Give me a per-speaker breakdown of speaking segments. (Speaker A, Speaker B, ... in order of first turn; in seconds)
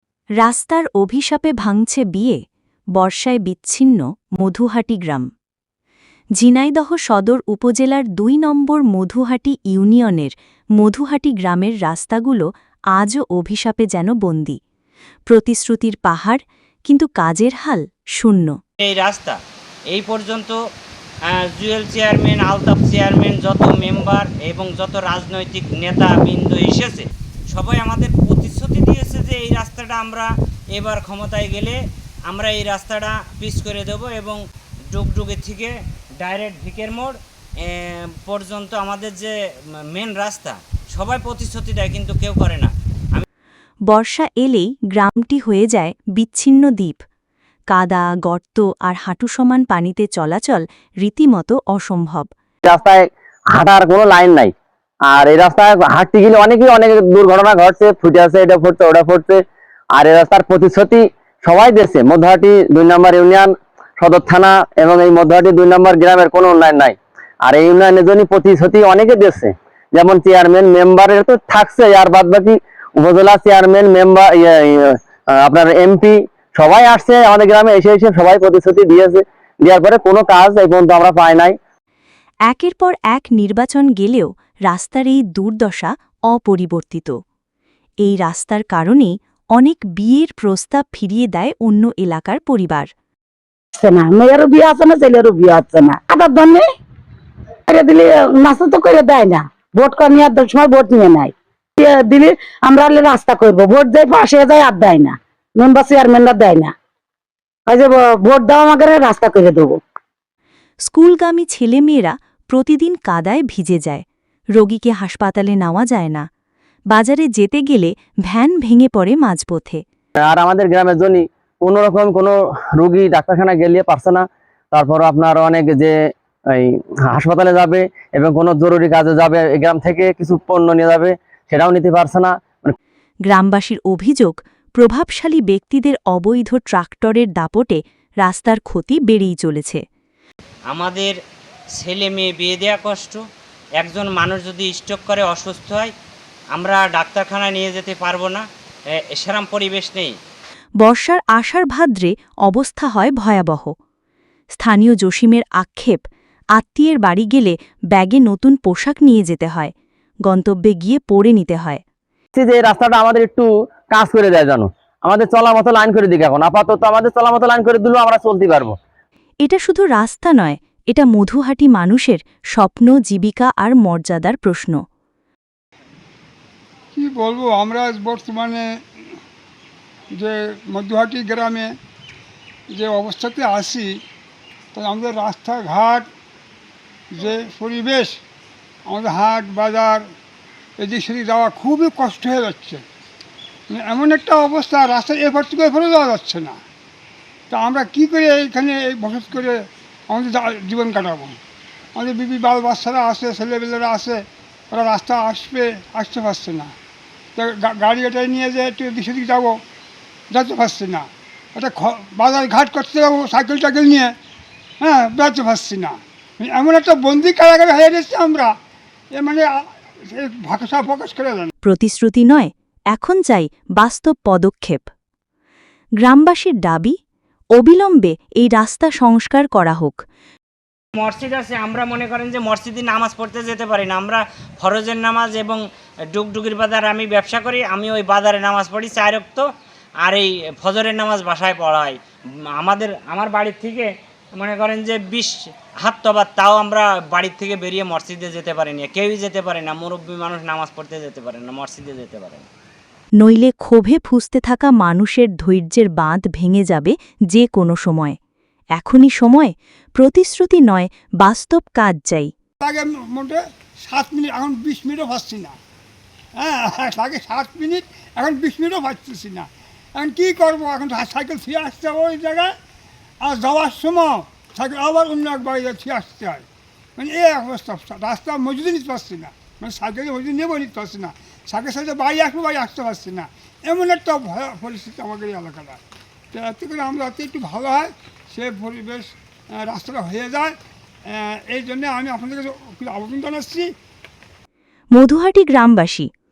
Speaker A: 0.4-2.4, 2.9-5.3, 6.4-14.6, 15.3-18.6, 43.9-47.0, 47.7-52.3, 82.5-87.2, 88.0-92.9, 110.8-116.3, 116.9-119.8, 133.3-139.8, 150.8-153.7, 154.5-159.7, 160.2-161.8, 169.4-174.8, 221.6-224.9, 226.0-227.0, 227.6-230.0, 253.2-258.2, 258.8-262.3, 294.9-296.1
Speaker B: 18.8-19.4, 19.9-20.6, 21.3-34.4, 34.9-39.3, 39.9-43.3, 140.7-141.2, 141.8-143.2, 143.8-145.9, 146.5-150.1, 231.0-235.6, 236.1-239.5, 240.0-242.0, 242.6-252.5
Speaker C: 52.6-54.5, 55.1-59.4, 60.0-81.6, 120.2-125.9, 126.5-132.8, 162.3-168.8
Speaker D: 93.8-96.7, 97.7-106.7, 107.7-109.8
Speaker E: 176.9-178.7, 180.2-181.7, 182.7-183.9, 184.7-186.1, 187.1-188.2, 188.9-190.1, 190.8-192.8, 193.7-196.6, 197.5-201.4, 201.9-206.7, 207.4-209.6, 210.3-214.1, 214.8-218.5, 219.1-221.5, 262.6-265.6, 266.4-272.5, 273.2-276.4, 277.0-285.8, 286.3-290.6, 291.1-293.7